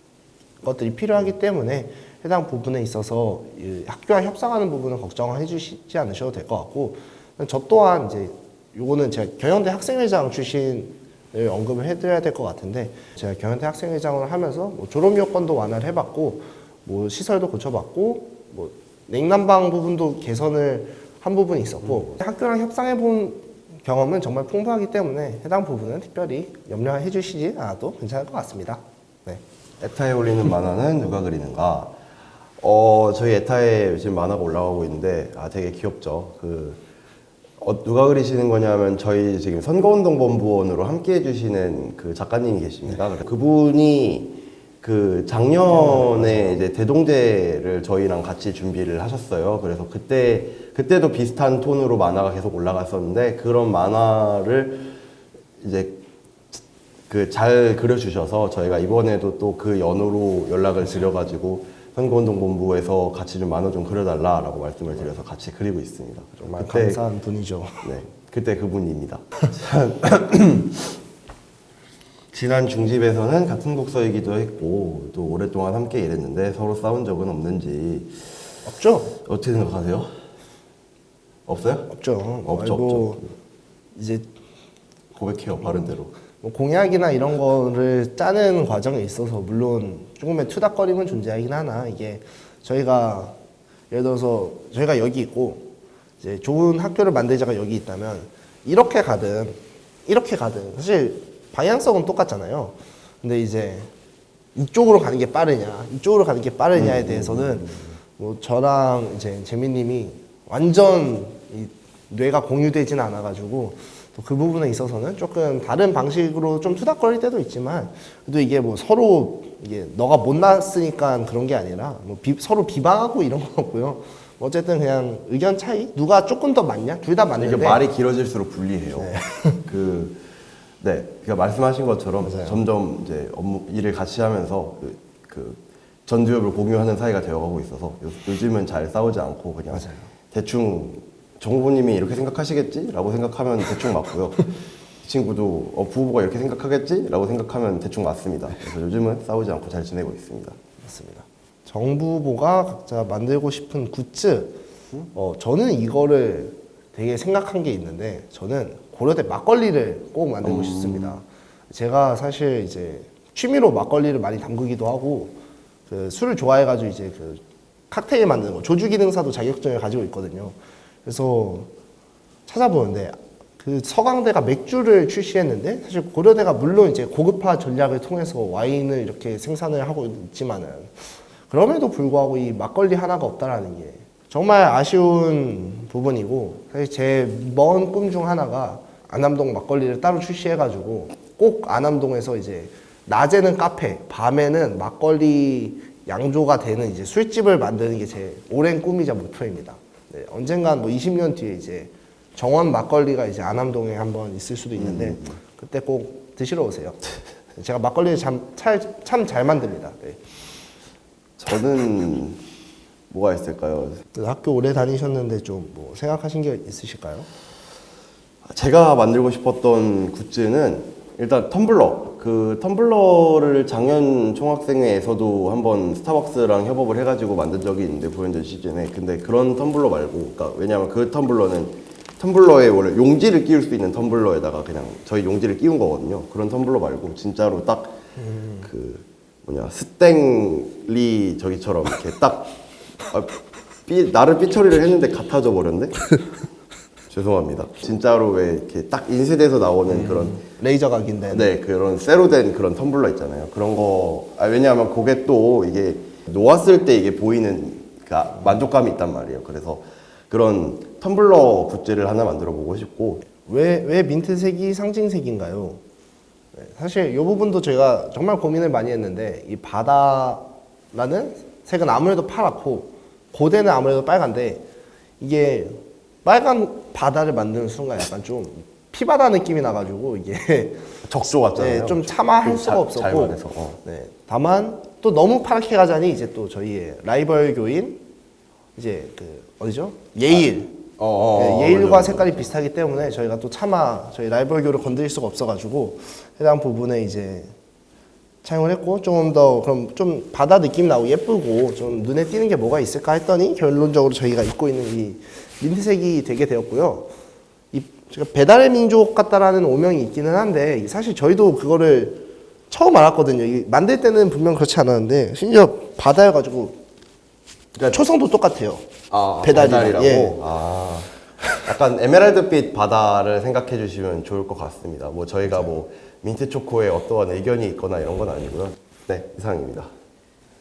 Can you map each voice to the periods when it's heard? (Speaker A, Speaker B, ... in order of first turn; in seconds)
Speaker A: 0.6-29.4, 45.7-46.6, 66.4-67.9, 78.6-79.1, 81.9-83.3, 83.9-84.3, 86.4-93.3, 93.9-95.7, 96.2-103.9, 104.5-127.8, 129.0-129.6, 132.2-132.6, 139.7-140.1, 150.8-154.6, 155.1-165.3, 165.9-171.7, 172.4-207.0, 207.5-210.2, 214.1-217.3, 238.2-238.6, 249.9-251.5, 263.4-265.8, 266.6-274.6, 275.2-280.9, 281.5-288.0, 288.8-290.8, 291.3-297.5, 298.4-307.1, 307.7-316.8, 317.9-318.9, 319.4-320.4
Speaker B: 29.8-31.9, 32.6-36.8, 37.6-54.9, 55.6-67.0, 67.8-70.9, 72.3-78.3, 79.1-80.1, 81.5-81.9, 82.4-83.3, 85.1-86.1, 106.7-107.9, 127.4-130.2, 130.8-144.5, 145.0-150.6, 160.4-161.2, 204.8-205.3, 211.4-212.4, 213.1-214.0, 218.4-238.0, 238.6-242.5, 243.1-243.3, 243.9-246.1, 247.1-250.4, 251.3-263.2, 281.1-283.8, 291.0-292.4, 317.7-318.0, 319.1-329.9